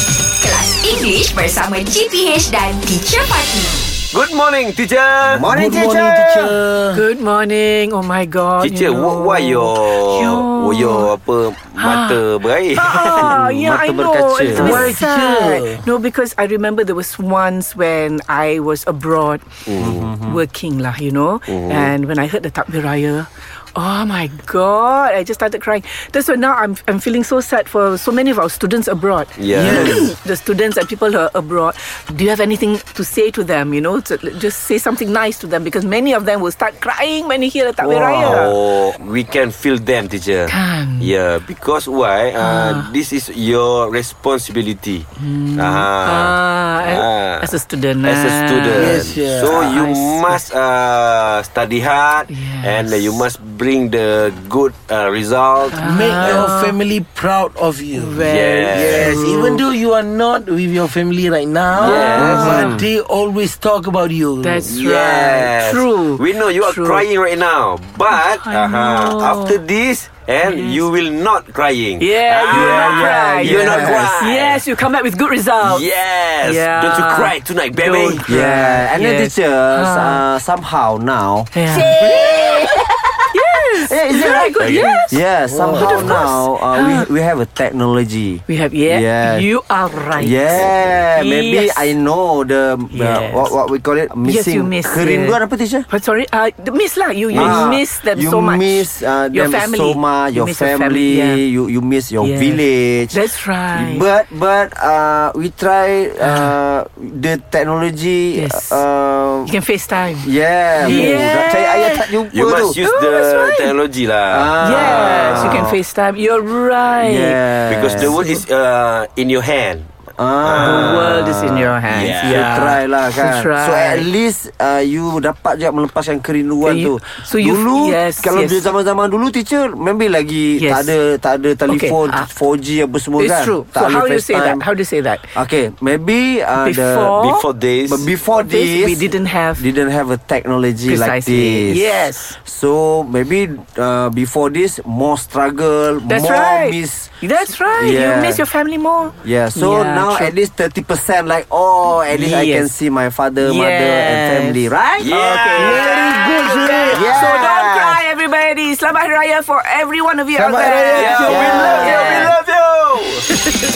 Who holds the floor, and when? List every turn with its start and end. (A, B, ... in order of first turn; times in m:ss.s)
0:00.4-0:03.7 A
0:04.1-0:05.5 B
0:05.2-0:06.6 C
0:05.5-0:07.0 D
0:06.9-0:11.1 E
0:08.6-0:13.3 B
0:11.7-0:12.2 E
0:12.7-0:19.6 E
0:13.1-0:14.9 C
0:14.5-0:15.8 D
0:19.6-0:20.1 B
0:19.8-0:20.4 C
0:20.2-0:38.6 E
0:21.5-0:21.9 B
0:29.4-0:30.0 B
0:29.5-0:30.1 D
0:29.7-0:30.0 C
0:37.8-0:56.5 B
0:40.5-0:41.1 E
0:42.4-0:42.9 E
0:45.2-0:49.0 E
0:48.7-0:49.8 D
0:49.6-0:50.4 E
0:52.3-0:53.2 E
0:55.7-0:56.8 E
0:55.8-1:04.7 D
0:57.9-0:59.6 E
0:58.2-0:59.1 B
1:01.8-1:02.8 B
1:01.8-1:02.8 E
1:02.1-1:02.8 C
1:04.4-1:07.0 E
1:04.6-1:14.6 B
1:08.1-1:09.6 E
1:10.4-1:10.8 E
1:12.0-1:15.9 E
1:12.5-1:14.2 C
1:15.6-1:18.3 B
1:16.4-1:20.2 E
1:18.3-1:22.9 C
1:21.5-1:21.9 E
1:22.0-1:22.8 A
1:23.3-1:27.1 E
1:23.8-1:29.5 C
1:24.6-1:25.0 B
1:25.5-1:26.2 D
1:28.5-1:31.9 E
1:30.1-1:35.9 C
1:32.9-1:33.5 E
1:34.2-1:41.4 E
1:37.3-1:43.2 C
1:37.3-1:37.7 B
1:42.2-1:44.1 E
1:43.7-1:49.5 C
1:46.2-1:46.6 E
1:48.3-1:48.8 E
1:49.4-1:52.1 E
1:50.2-1:52.8 C
1:50.8-1:51.1 B
1:52.3-1:54.6 B
1:52.8-1:53.7 E
1:54.3-1:55.8 C
1:54.6-1:57.4 E
1:57.0-1:58.2 C
1:57.7-1:59.9 B
1:58.1-1:58.4 E
2:00.2-2:14.6 C
2:00.4-2:01.2 B
2:00.6-2:04.1 E
2:01.9-2:02.6 B
2:06.6-2:08.7 E
2:10.6-2:10.9 E
2:11.7-2:12.3 E
2:13.2-2:15.4 E
2:15.3-2:17.2 C
2:16.6-2:17.5 E
2:17.1-2:18.1 B
2:17.9-2:27.2 C
2:18.3-2:19.6 E
2:20.8-2:22.4 E
2:26.1-2:30.4 E
2:27.7-2:28.4 C
2:29.2-2:35.1 C
2:32.1-2:32.7 E
2:33.4-2:42.4 E
2:35.0-2:36.8 B
2:35.6-2:37.3 D
2:36.8-2:38.0 C
2:40.3-2:42.3 C
2:40.9-2:43.2 B